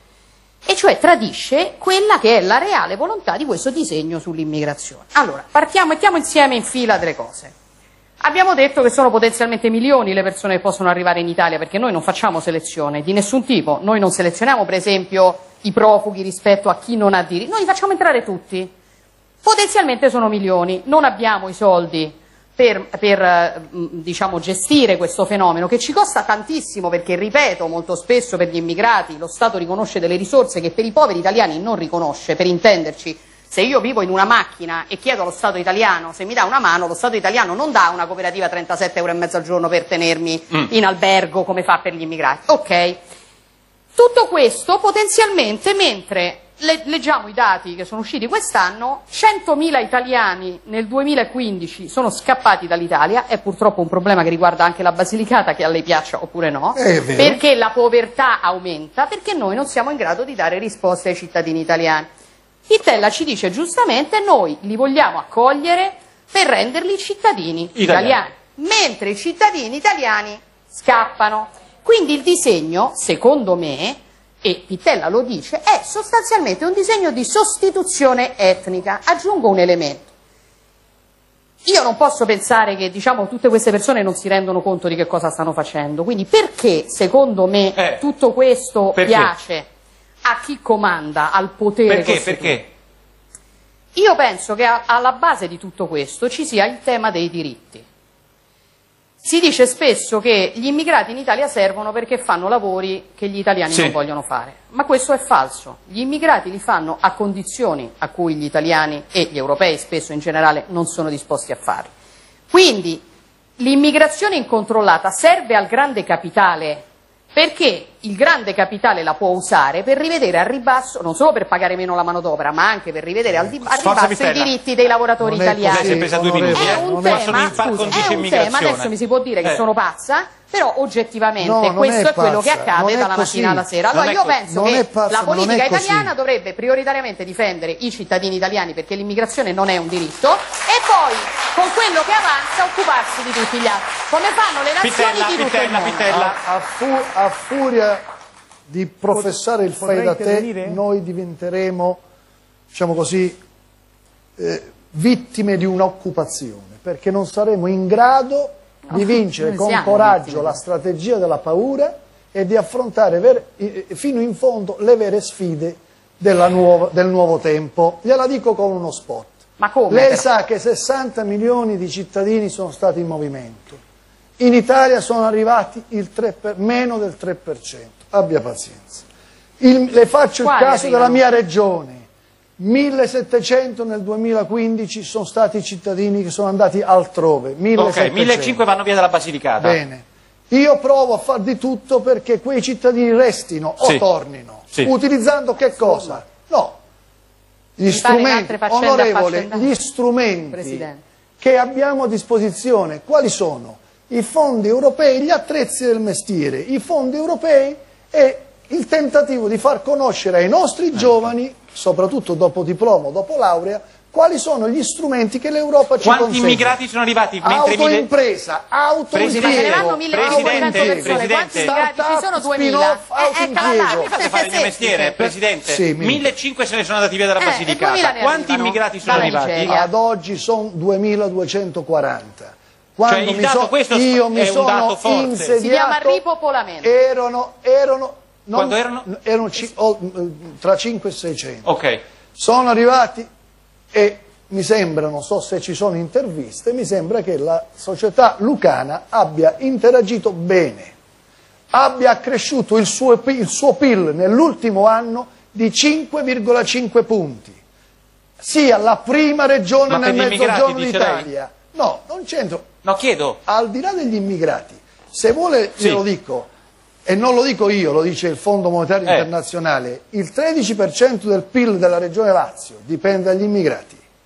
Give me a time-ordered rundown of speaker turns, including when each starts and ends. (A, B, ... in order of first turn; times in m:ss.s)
0:00.7-0:07.5 A
0:08.2-0:18.7 A
0:19.4-0:43.0 A
0:44.0-1:02.1 A
0:56.8-0:57.4 B
1:02.7-1:20.1 A
1:07.8-1:08.2 C
1:21.6-1:29.7 A
1:27.8-1:28.0 C
1:29.0-1:29.3 C
1:30.2-1:32.6 A
1:31.9-1:32.7 C
1:34.0-1:37.8 A
1:39.2-1:51.9 A
1:43.7-1:44.0 C
1:52.5-1:53.0 A
1:53.6-2:06.0 A
2:03.6-2:04.5 C
2:05.2-2:08.2 B
2:05.7-2:08.9 C
2:06.5-2:26.2 A
2:11.4-2:16.1 B
2:13.9-2:14.3 C
2:24.8-2:26.4 C
2:26.1-2:28.0 B
2:28.7-2:32.0 B
2:30.0-2:30.8 C
2:32.7-2:33.4 B
2:34.4-2:53.8 B
2:38.9-2:40.6 A
2:49.6-2:50.3 A
2:54.4-2:59.0 B
2:59.6-3:02.1 B
3:00.4-3:01.2 A
3:02.6-3:08.6 B
3:07.8-3:09.8 C
3:09.6-3:16.8 B
3:17.8-3:20.9 B
3:17.9-3:19.7 A
3:20.5-3:21.0 A
3:21.4-3:36.8 B
3:36.0-3:38.1 C
3:37.4-3:44.1 B
3:39.1-3:41.7 C
3:39.2-3:45.2 A
3:43.6-3:49.8 C
3:45.2-3:46.3 B
3:47.4-3:49.9 A
3:49.0-3:56.2 B
3:53.1-3:55.6 C
3:55.6-3:56.9 A
3:56.8-4:01.7 B
3:58.5-3:59.1 C
4:01.6-4:02.0 C
4:02.4-4:03.3 B
4:03.9-4:10.9 B
4:11.7-4:17.6 B
4:18.4-4:22.7 B
4:19.9-4:21.3 C
4:22.8-4:23.4 C
4:23.5-4:26.5 B
4:27.1-4:34.0 B